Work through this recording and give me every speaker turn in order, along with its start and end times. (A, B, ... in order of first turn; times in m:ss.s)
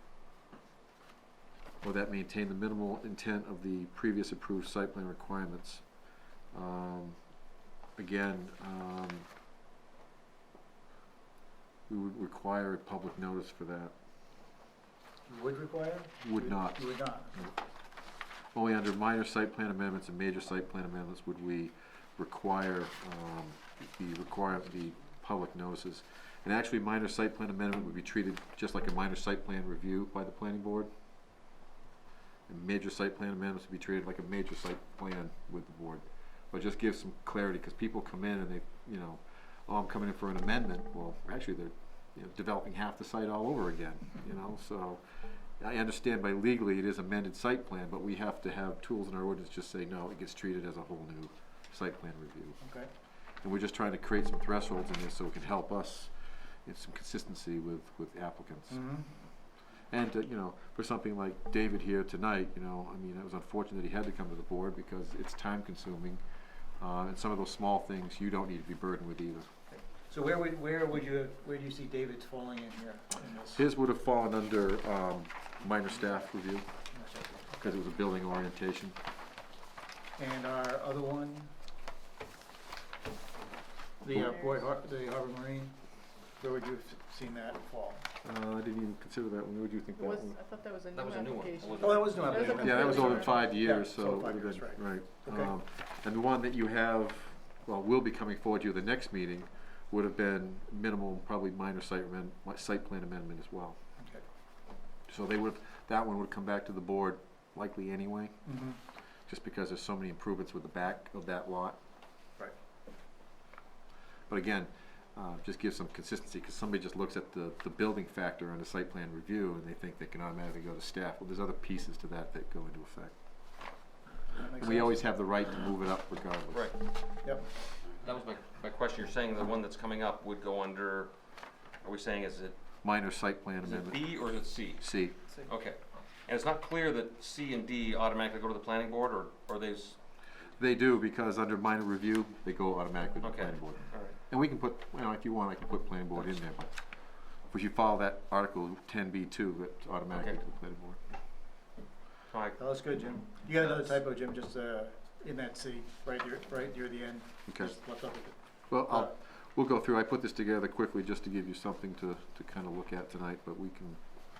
0:01.8-0:05.8 A
0:06.5-0:07.2 A
0:08.0-0:09.3 A
0:11.9-0:13.9 A
0:15.3-0:17.3 B
0:16.2-0:17.5 A
0:18.5-0:30.9 A
0:32.5-0:52.6 A
0:52.6-0:52.9 B
0:53.4-0:56.1 A
0:56.6-0:58.8 A
0:58.7-0:59.1 B
0:59.9-1:06.2 A
1:06.8-1:09.5 A
1:10.1-1:13.6 B
1:13.5-1:16.7 A
1:16.9-1:17.7 B
1:17.6-1:19.0 A
1:20.2-1:21.5 B
1:24.0-1:25.8 B
1:24.1-1:24.6 C
1:26.4-1:28.0 B
1:28.2-1:30.4 A
1:30.0-1:33.5 C
1:30.9-1:33.2 D
1:31.8-1:35.5 B
1:32.6-1:43.8 A
1:45.1-1:48.5 A
1:48.4-1:48.8 B
1:49.2-1:51.8 A
1:54.3-2:03.1 A
2:04.3-2:05.1 B
2:04.6-2:06.7 A
2:06.5-2:06.8 D
2:07.2-2:07.5 B
2:08.0-2:11.1 D
2:11.8-2:12.6 D
2:12.8-2:14.0 A
2:13.6-2:14.8 D
2:14.8-2:15.2 A
2:15.4-2:20.0 D
2:20.6-2:26.8 A
2:23.2-2:24.2 D
2:27.4-2:31.0 A
2:30.1-2:30.4 D
2:32.3-2:32.6 D
2:32.6-2:39.1 B
2:37.5-2:37.7 A
2:38.7-2:44.0 A